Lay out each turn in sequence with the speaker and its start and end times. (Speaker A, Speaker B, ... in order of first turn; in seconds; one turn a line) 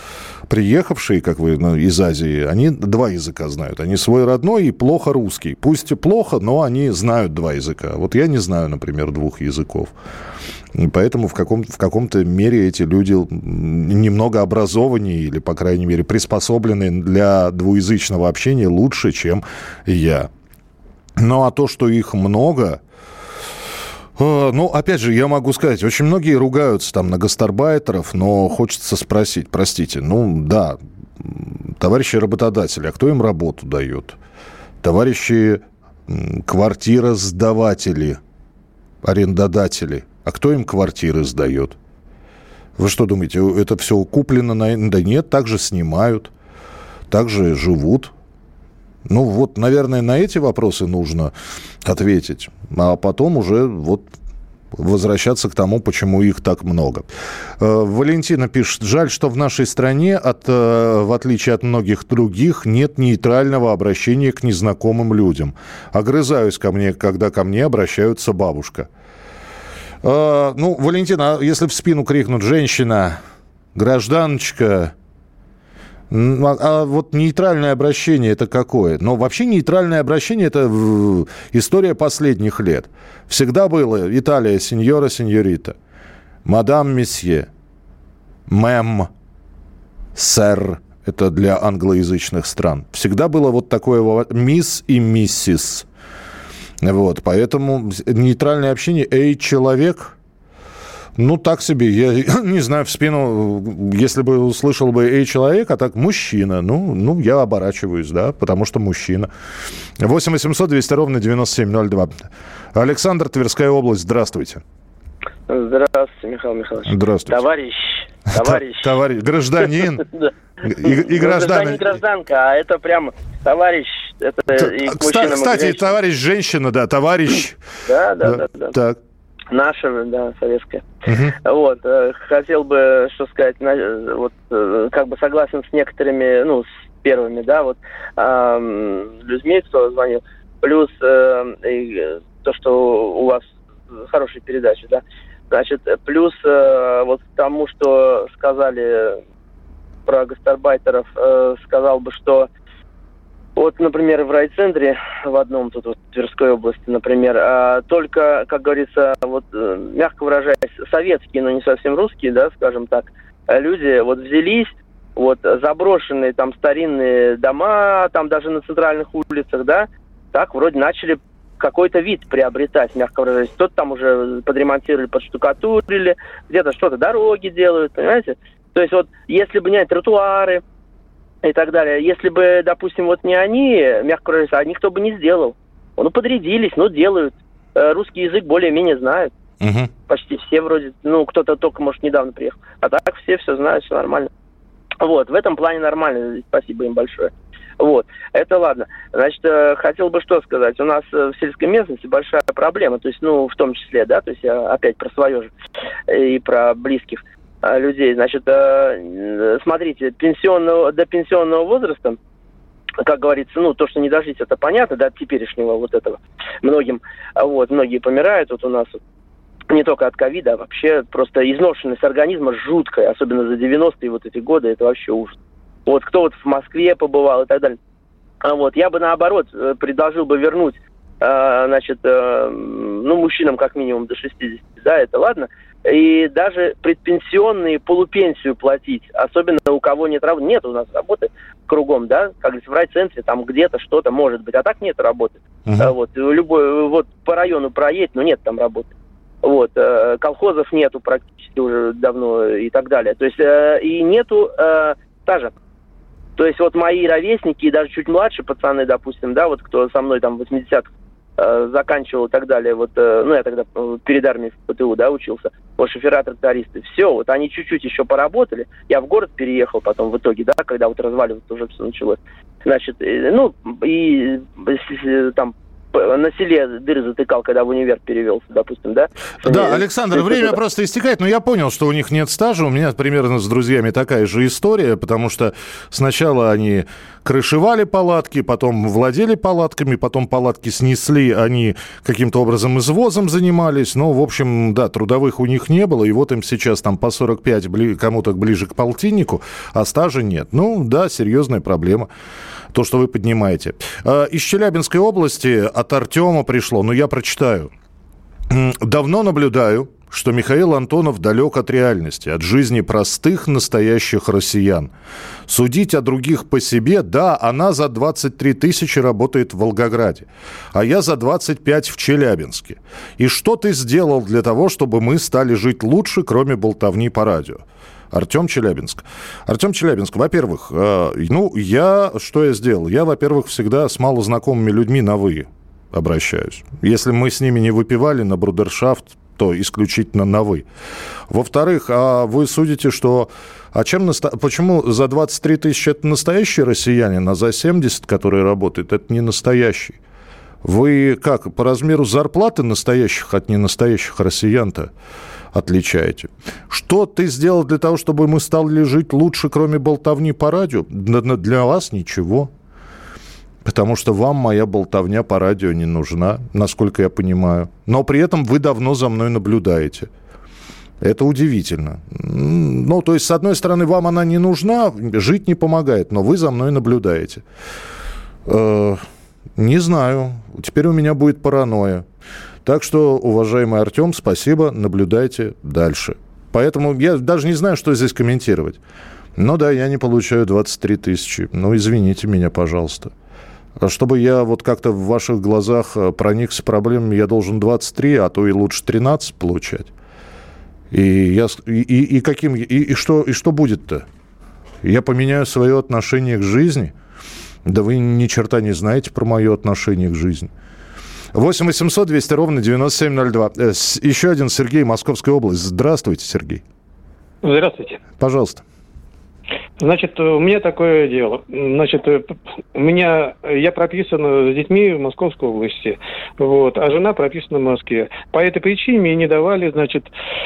Speaker A: 0.5-9.9
Speaker A: 10.7-20.3
Speaker A: 21.2-22.8
Speaker A: 24.2-34.2
Speaker A: 34.8-38.2
Speaker A: 39.0-41.8
Speaker A: 42.8-46.3
Speaker A: 47.1-48.1
Speaker A: 49.0-51.3
Speaker A: 51.9-54.1
Speaker A: 54.7-57.1
Speaker A: 57.6-68.9
Speaker A: 70.0-73.2
Speaker A: 73.8-74.9
Speaker A: 76.1-85.8
Speaker A: 86.5-87.5
Speaker A: 88.5-89.1
Speaker A: 90.2-95.9
Speaker A: 96.8-100.2
Speaker A: 101.2-109.3
Speaker A: 110.0-112.1
Speaker A: 112.7-114.6
Speaker B: 115.5-118.9
Speaker A: 116.9-117.4
Speaker A: 118.3-120.0
Speaker B: 120.0-126.0
Speaker A: 120.7-122.0
Speaker A: 124.6-127.6
Speaker B: 127.9-128.7
Speaker A: 128.2-129.0
Speaker B: 129.5-130.8
Speaker A: 131.1-131.3
Speaker B: 131.4-143.4
Speaker B: 144.0-149.2
Speaker B: 150.1-152.5
Speaker B: 153.6-180.6
Speaker B: 181.4-189.3
Speaker A: 189.6-189.9
Speaker B: 190.1-194.3
Speaker B: 195.0-205.5
Speaker B: 206.1-212.2
Speaker B: 213.0-219.0
Speaker B: 219.7-225.3
Speaker B: 225.9-227.8
Speaker B: 228.4-248.9
Speaker A: 245.7-245.9
Speaker B: 249.4-255.5
Speaker B: 256.4-280.6
Speaker A: 279.4-302.1
Speaker A: 302.7-307.7
Speaker A: 308.5-314.9
Speaker A: 315.5-340.7
Speaker A: 341.3-350.0
Speaker A: 350.6-354.9
Speaker A: 355.5-362.5
Speaker A: 363.6-370.1
Speaker A: 371.0-377.4
Speaker A: 378.5-379.0
Speaker A: 379.6-382.1
Speaker A: 382.6-388.8
Speaker A: 389.4-393.1
Speaker A: 393.8-399.9
Speaker A: 400.9-404.1
Speaker A: 404.8-406.9
Speaker A: 407.6-410.5
Speaker A: 411.3-416.6
Speaker C: 417.4-418.0
Speaker A: 418.2-418.6
Speaker C: 419.8-430.1